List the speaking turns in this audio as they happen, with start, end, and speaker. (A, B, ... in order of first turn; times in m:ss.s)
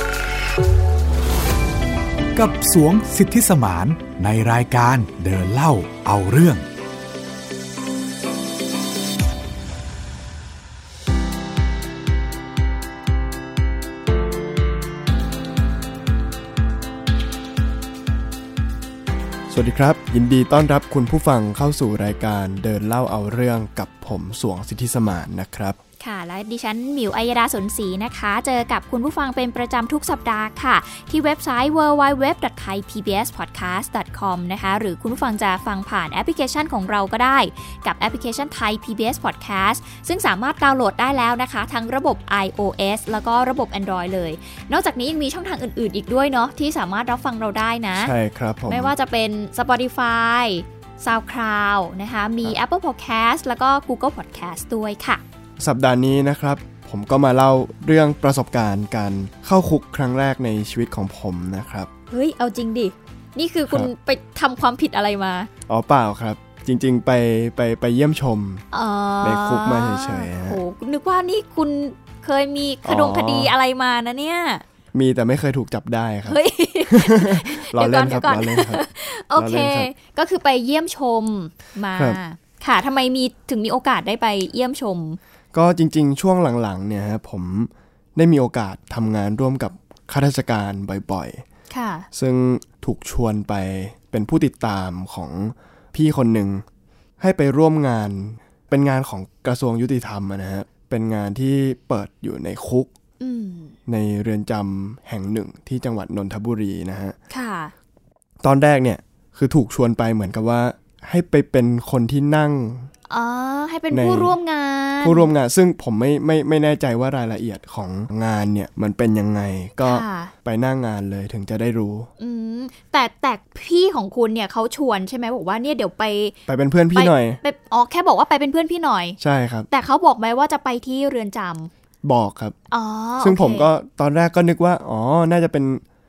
0:02.4-0:06.6 A
0:19.5-0:25.8 B
0:26.0-0:48.1 C
0:48.0-0:48.9 B
0:48.7-0:55.2 C
0:55.6-1:01.9 B
1:02.1-1:05.5 C
1:05.7-1:08.6 B
1:08.7-1:14.6 C
1:09.2-1:10.6 B
1:12.8-1:13.5 B
1:14.9-1:19.9 B
1:16.3-1:25.2 C
1:25.5-1:31.4 B
1:31.7-1:32.1 C
1:32.1-1:36.6 B
1:37.2-1:42.9 B
1:43.2-1:43.8 C
1:43.9-1:47.2 B
1:47.3-1:47.7 C
1:48.4-1:52.9 B
1:53.1-1:55.3 C
1:53.9-1:54.3 B
1:55.0-2:02.1 B
1:59.8-2:00.3 C
2:02.2-2:06.4 C
2:06.5-2:07.4 B
2:07.0-2:09.2 C
2:09.2-2:09.7 B
2:09.7-2:11.7 C
2:12.0-2:12.6 B
2:12.7-2:13.7 C
2:13.2-2:15.8 B